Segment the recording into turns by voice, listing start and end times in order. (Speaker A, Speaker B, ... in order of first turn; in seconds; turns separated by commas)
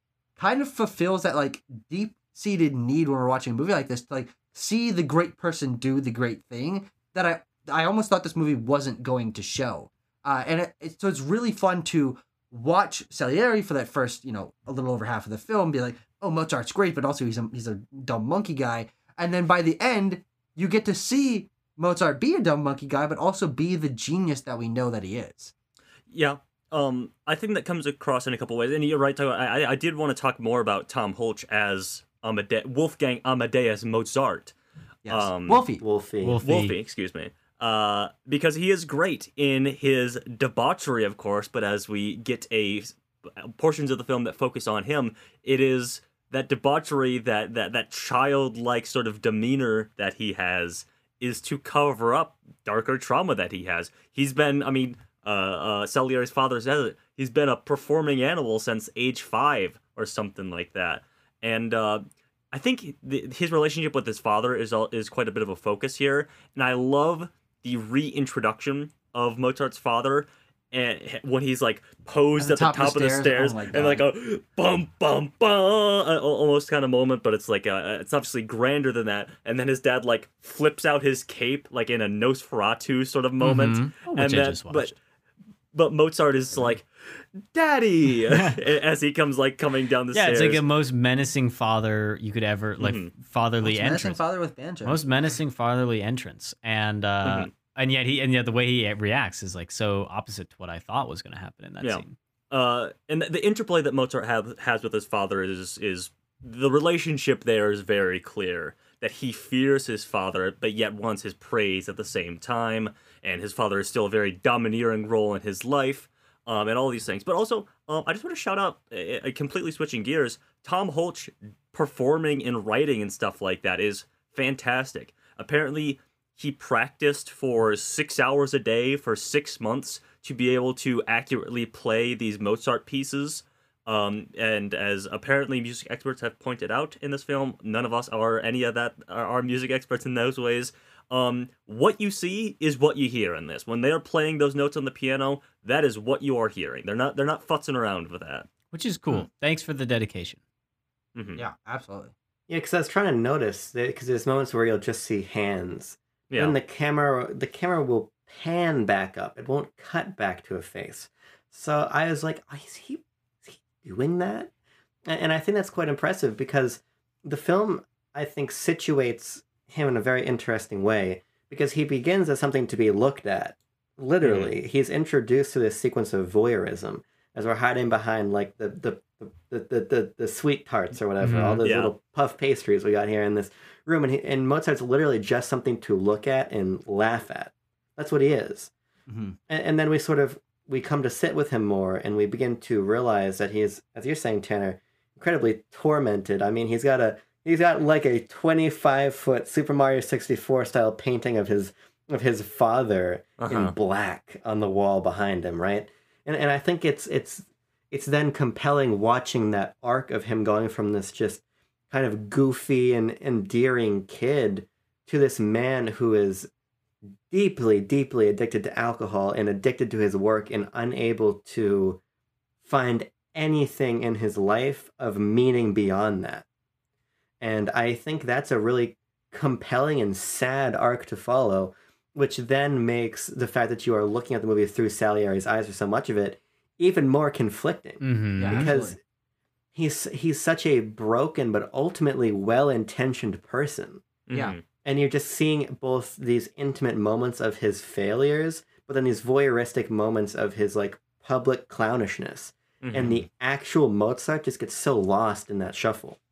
Speaker A: 0.4-25.5, Speaker B: 26.1-34.5, Speaker A: 35.0-35.8, Speaker B: 35.1-35.6, Speaker C: 35.8-36.4, Speaker D: 36.2-36.7, Speaker B: 36.4-85.0, Speaker A: 72.4-74.1, Speaker D: 83.4-84.9, Speaker B: 85.7-90.6, Speaker D: 90.1-94.2, Speaker B: 92.8-93.1, Speaker A: 93.6-95.0, Speaker D: 94.8-102.1, Speaker B: 97.2-97.5, Speaker B: 101.8-148.5, Speaker D: 148.7-150.4, Speaker B: 151.1-151.4, Speaker A: 151.3-152.1, Speaker C: 152.5-164.5, Speaker B: 156.3-156.5, Speaker C: 165.1-188.7, Speaker B: 174.2-174.5, Speaker D: 181.2-181.6, Speaker B: 181.6-181.9, Speaker A: 189.1-189.3, Speaker C: 189.5-216.5, Speaker B: 203.4-203.7, Speaker C: 217.3-222.0, Speaker C: 222.6-226.4, Speaker C: 227.4-239.0, Speaker D: 238.0-238.7, Speaker A: 238.4-238.9, Speaker C: 239.7-244.0, Speaker B: 244.3-244.6, Speaker C: 244.8-256.2, Speaker B: 252.8-253.2